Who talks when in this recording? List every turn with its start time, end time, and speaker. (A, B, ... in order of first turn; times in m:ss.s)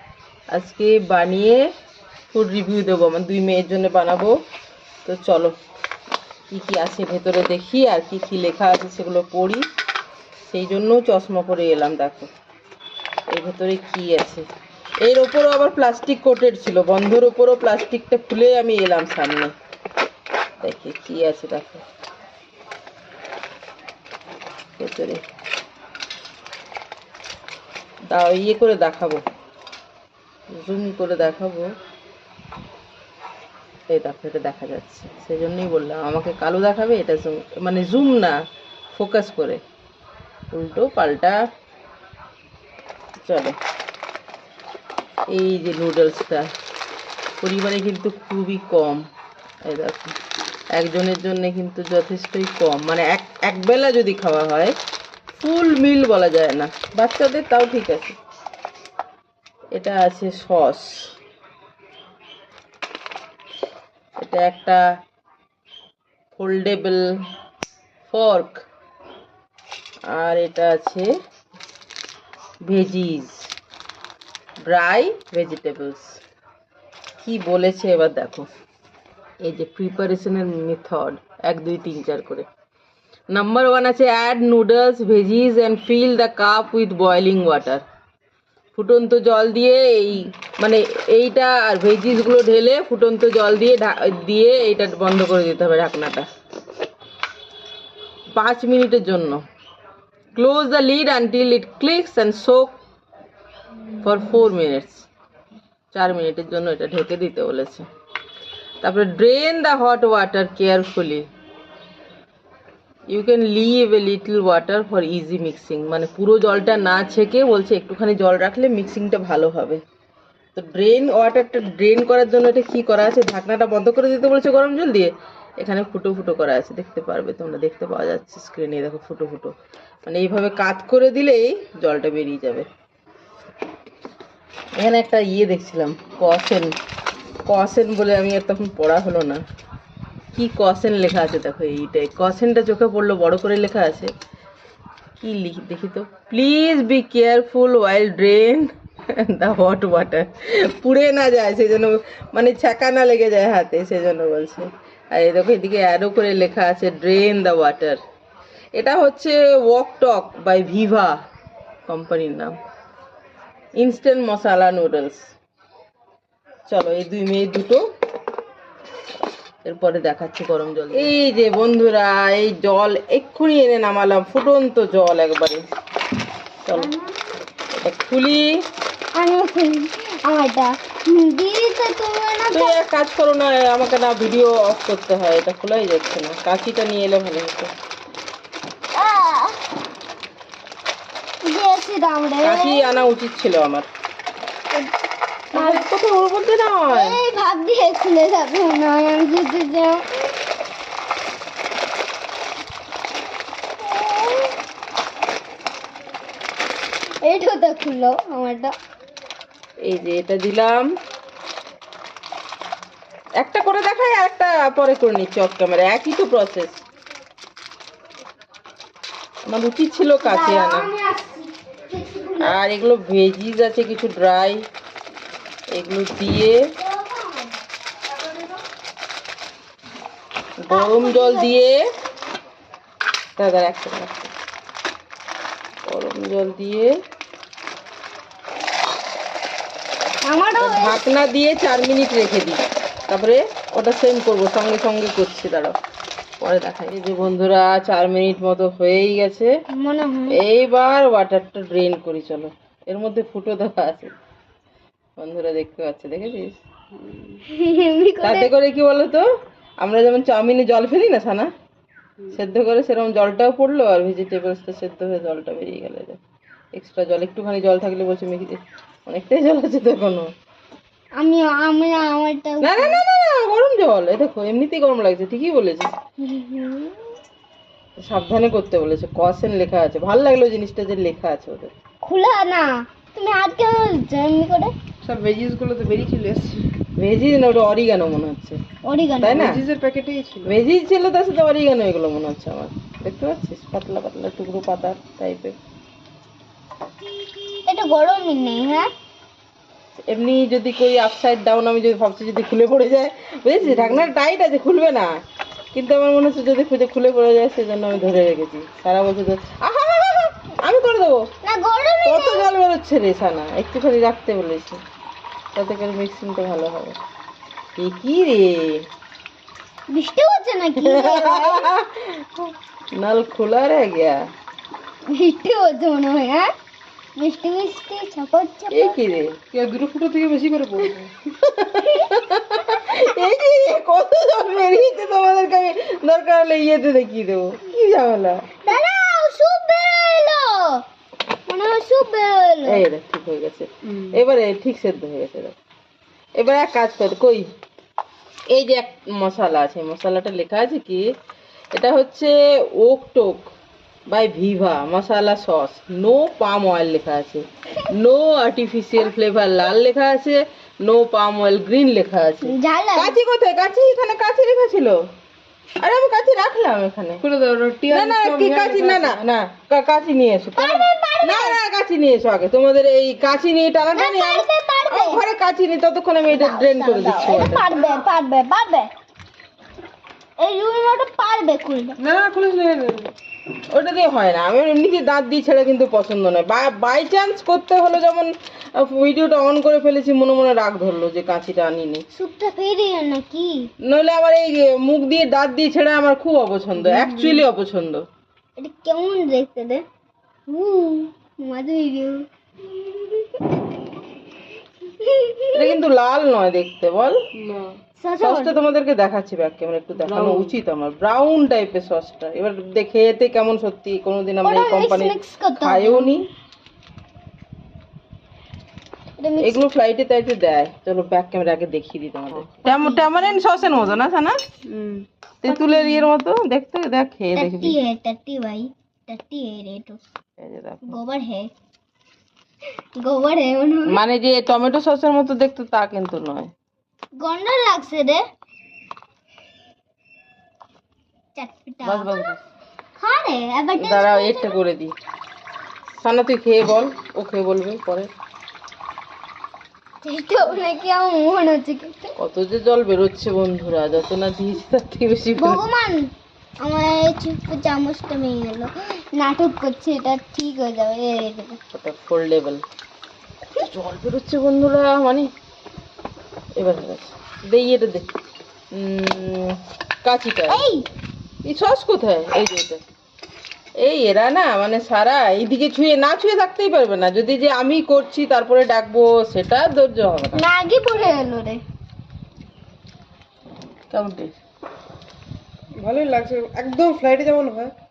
0:00.5-0:01.7 A
0:02.3-0:04.4 A
0:05.0-0:05.5 A
0:06.5-0:09.6 A
0:10.4-0:12.3 A
0:13.3-0:14.5 A
0:15.0-0:19.5 A
0:20.6-0:21.8 A
0:24.8-0:25.2 A
0:28.1-0:29.2 A
0:30.6-0:31.7 A
0:33.9-0:38.4 A
0:38.9-0:39.6 A
0:40.5-0:41.4 A
0:43.2-0:43.6 A
0:45.3-0:46.5 A
0:47.4-0:49.0 A
0:49.6-0:50.2 A
0:50.7-0:54.7 A
0:55.4-0:58.2 A
0:59.7-1:01.0 A
1:04.2-1:04.8 A
1:06.3-1:07.1 A
1:08.1-1:08.6 A
1:10.1-1:11.1 A
1:12.7-1:13.4 A
1:14.6-1:16.2 A
1:17.2-1:18.5 A
1:19.4-1:22.5 A
1:23.3-1:27.8 A
1:28.8-1:36.3 A
1:38.3-1:39.4 A
1:40.4-1:42.8 A
1:44.0-1:45.0 A
1:45.9-1:47.9 A
1:48.8-1:51.3 A
1:53.1-1:59.8 A
2:00.6-2:09.5 A
2:10.1-2:12.7 A
2:14.8-2:16.7 A
2:17.5-2:19.4 A
2:20.4-2:24.1 A
2:25.2-2:38.0 A
2:38.8-2:41.2 A
2:41.9-2:42.6 A
2:43.8-2:45.3 A
2:46.7-2:47.8 A
2:49.6-2:55.6 A
2:56.6-2:56.9 A
2:56.7-2:57.2 B
2:57.8-2:58.5 A
2:59.2-3:02.8 B
3:02.5-3:07.7 A
3:09.0-3:09.6 B
3:11.4-3:13.0 B
3:12.4-3:13.9 A
3:15.5-3:17.2 A
3:15.5-3:15.8 B
3:16.9-3:20.0 B
3:23.8-3:24.6 B
3:27.2-3:28.7 B
3:29.8-3:30.9 A
3:33.4-3:36.8 A
3:39.5-3:40.9 A
3:40.2-3:42.6 B
3:42.4-3:44.6 A
3:45.7-3:46.6 A
3:46.8-3:47.6 B
3:50.6-3:51.8 A
3:50.7-3:51.6 B
3:53.4-3:54.3 A
3:55.9-3:56.9 A
4:00.2-4:01.0 B
4:00.6-4:05.8 A
4:06.4-4:09.5 A
4:09.7-4:10.4 B
4:10.3-4:14.1 A
4:15.2-4:16.6 A
4:16.9-4:17.4 C
4:17.5-4:18.5 B
4:18.2-4:19.3 A
4:19.8-4:21.5 A
4:22.3-4:26.2 A
4:26.8-4:30.3 A
4:31.2-4:33.0 B
4:32.6-4:35.9 A
4:36.2-4:37.2 B
4:38.0-4:41.7 A
4:42.0-4:44.7 B
4:45.0-4:46.6 C
4:47.0-4:48.6 A
4:48.8-4:49.5 B
4:49.2-4:49.6 A
4:49.2-4:50.6 C
4:50.5-4:55.6 A
4:57.7-4:58.9 B
5:00.1-5:05.1 A
5:03.7-5:04.1 C
5:05.7-5:11.2 A
5:11.4-5:12.5 B
5:12.0-5:14.8 A
5:15.6-5:17.0 A
5:17.8-5:18.8 A
5:19.9-5:21.8 B
5:20.8-5:24.2 A
5:25.1-5:26.5 B
5:27.2-5:29.0 B
5:28.7-5:29.6 A
5:29.7-5:31.1 C
5:31.4-5:38.5 A
5:38.6-5:40.8 B
5:41.5-5:42.8 B
5:42.6-5:45.6 A
5:46.4-5:47.5 A
5:48.5-5:51.0 A
5:51.8-5:53.5 A
5:54.1-6:05.0 A
6:02.5-6:03.2 B
6:05.8-6:07.2 A
6:07.2-6:09.2 C
6:07.9-6:17.7 A
6:10.6-6:11.6 B
6:13.9-6:15.2 B
6:16.3-6:18.9 B
6:20.4-6:22.0 B
6:22.0-6:23.1 C
6:23.7-6:32.0 A
6:32.1-6:33.6 B
6:33.8-6:38.0 A
6:36.8-6:37.4 C
6:38.6-6:39.8 B
6:40.5-6:43.6 B
6:44.9-6:45.8 B
6:45.5-6:47.2 A
6:47.4-6:47.8 C
6:48.0-6:48.6 B
6:48.2-6:56.3 A
6:50.0-6:50.5 C
6:54.4-6:56.2 B
6:59.2-6:59.6 B
6:59.4-7:04.4 A
7:02.6-7:03.8 B
7:04.7-7:05.0 C
7:05.4-7:07.8 A
7:05.5-7:06.1 B
7:07.4-7:10.0 B
7:10.4-7:11.0 A
7:10.9-7:11.5 B
7:13.0-7:14.0 B
7:13.9-7:16.5 A
7:17.2-7:18.2 B
7:21.4-7:22.3 B
7:21.8-7:22.4 A
7:23.0-7:24.6 B
7:23.8-7:24.9 A
7:26.0-7:28.1 A
7:30.0-7:32.1 B
7:32.2-7:35.6 A
7:35.4-7:41.6 B
7:41.7-7:42.6 A
7:43.6-7:45.3 A
7:46.6-7:48.1 A
7:48.7-7:50.7 A
7:50.5-7:50.9 B
7:51.4-7:52.8 A
7:53.8-8:00.4 A
8:00.4-8:01.6 B
8:03.9-8:04.4 A
8:05.8-8:07.7 C